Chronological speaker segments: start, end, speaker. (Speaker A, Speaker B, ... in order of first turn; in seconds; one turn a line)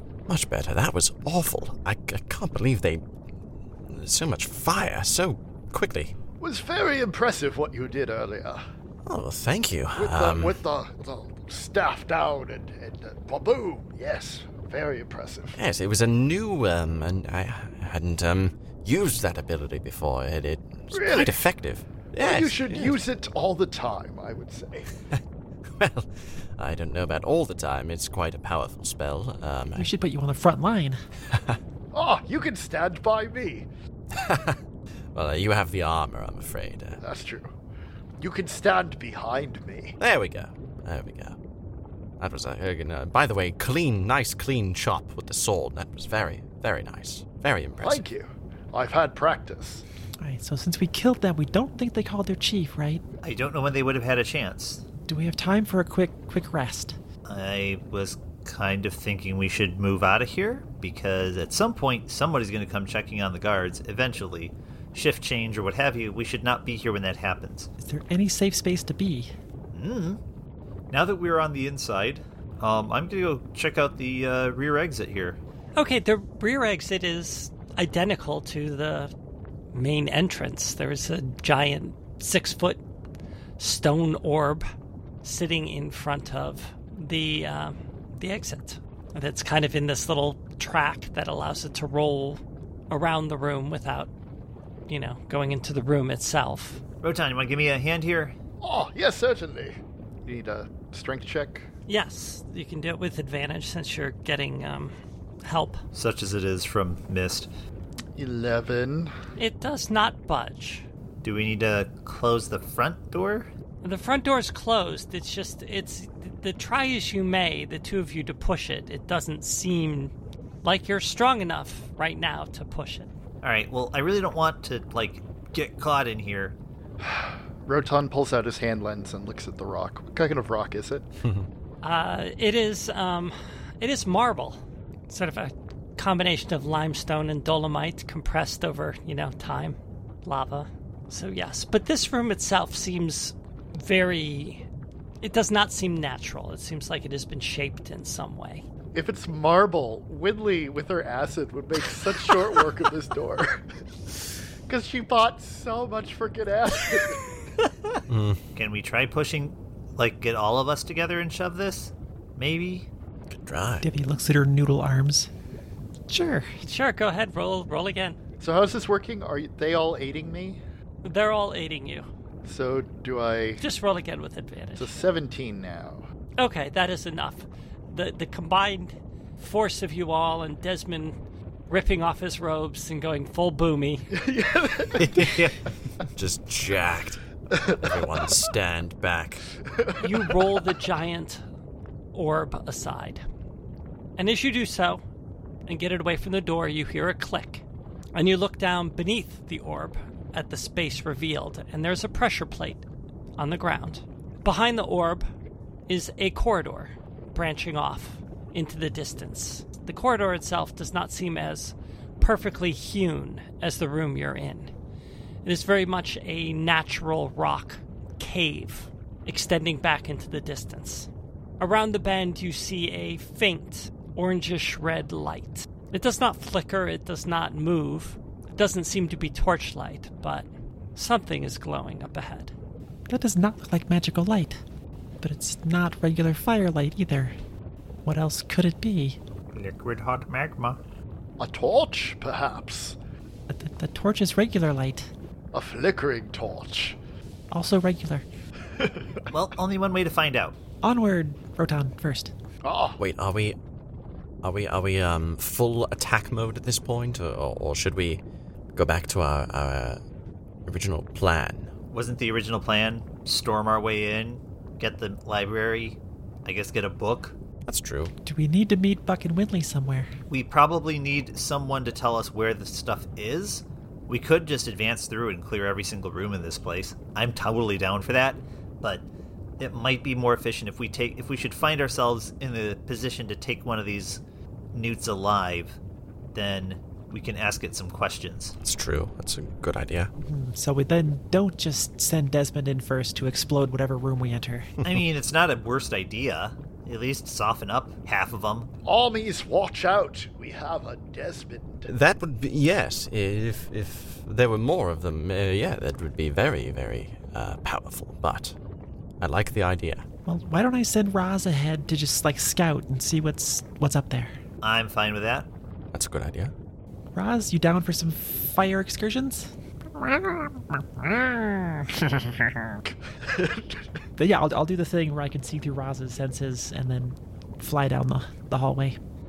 Speaker A: 0.3-3.0
Speaker A: 3.9-6.2
Speaker B: 6.4-8.6
Speaker A: 9.1-10.6
Speaker B: 9.9-15.6
Speaker A: 15.6-23.0
Speaker B: 20.9-21.4
Speaker B: 22.1-24.9
Speaker A: 25.8-29.9
Speaker C: 29.8-31.0
Speaker A: 31.3-31.6
Speaker B: 31.9-33.7
Speaker A: 34.1-34.6
Speaker A: 35.1-37.0
Speaker B: 37.0-37.5
Speaker B: 38.2-39.9
Speaker A: 40.0-41.3
Speaker A: 42.2-48.0
Speaker B: 47.8-49.8
Speaker C: 50.2-53.0
Speaker D: 53.2-54.8
Speaker C: 55.1-57.0
Speaker D: 57.2-67.7
Speaker C: 67.8-69.3
Speaker D: 69.7-70.2
Speaker D: 70.9-75.4
Speaker E: 75.8-79.1
Speaker E: 79.7-82.8
Speaker E: 83.6-84.6
Speaker E: 85.2-94.1
Speaker E: 94.9-96.8
Speaker D: 97.0-98.3
Speaker B: 98.6-101.7
Speaker E: 101.9-104.9
Speaker E: 105.4-105.8
Speaker D: 105.9-107.5
Speaker B: 108.1-109.1
Speaker E: 109.3-110.8
Speaker D: 111.2-113.5
Speaker E: 113.8-120.1
Speaker E: 120.6-123.1
Speaker D: 123.4-126.6
Speaker B: 127.0-131.1
Speaker E: 131.8-144.6
Speaker E: 145.2-148.6
Speaker B: 148.9-157.3
Speaker A: 158.1-158.4
Speaker D: 158.6-162.9
Speaker A: 163.3-163.8
Speaker C: 163.8-165.3
Speaker C: 166.1-166.6
Speaker E: 166.6-168.2
Speaker B: 168.4-170.6
Speaker E: 171.0-172.1
Speaker B: 172.4-173.6
Speaker E: 173.6-175.0
Speaker B: 174.8-176.0
Speaker E: 176.4-181.2
Speaker E: 181.7-184.1
Speaker B: 184.1-185.3
Speaker A: 185.0-185.5
Speaker A: 186.1-189.5
Speaker B: 187.5-188.2
Speaker B: 189.7-190.3
Speaker E: 190.0-191.4
Speaker E: 192.1-193.2
Speaker E: 194.2-195.0
Speaker E: 195.7-197.6
Speaker E: 198.1-202.8
Speaker E: 203.4-205.3
Speaker E: 205.9-214.7
Speaker E: 215.4-221.1
Speaker E: 221.6-232.5
Speaker C: 233.1-234.6
Speaker C: 235.2-237.3
Speaker C: 238.0-239.2
Speaker D: 239.5-240.8
Speaker B: 241.4-243.0
Speaker C: 243.5-245.1
Speaker B: 245.5-247.0
Speaker C: 247.5-248.2
Speaker B: 248.7-249.2
Speaker D: 249.3-250.6
Speaker C: 250.8-252.3
Speaker B: 252.6-253.0
Speaker A: 253.0-253.6
Speaker A: 254.4-258.2
Speaker A: 258.8-260.0
Speaker A: 260.6-261.7
Speaker D: 261.9-267.4
Speaker A: 267.6-268.1
Speaker C: 268.2-270.1
Speaker D: 270.3-279.1
Speaker D: 279.6-284.2
Speaker D: 284.7-285.8
Speaker D: 286.3-288.6
Speaker A: 288.6-290.1
Speaker C: 290.2-294.7
Speaker D: 294.8-298.7
Speaker B: 298.8-301.9
Speaker A: 301.9-308.5
Speaker A: 309.2-310.0
Speaker C: 310.2-314.3
Speaker D: 314.6-315.5
Speaker A: 315.9-316.5
Speaker C: 317.1-322.8
Speaker B: 323.2-323.8
Speaker C: 324.2-329.0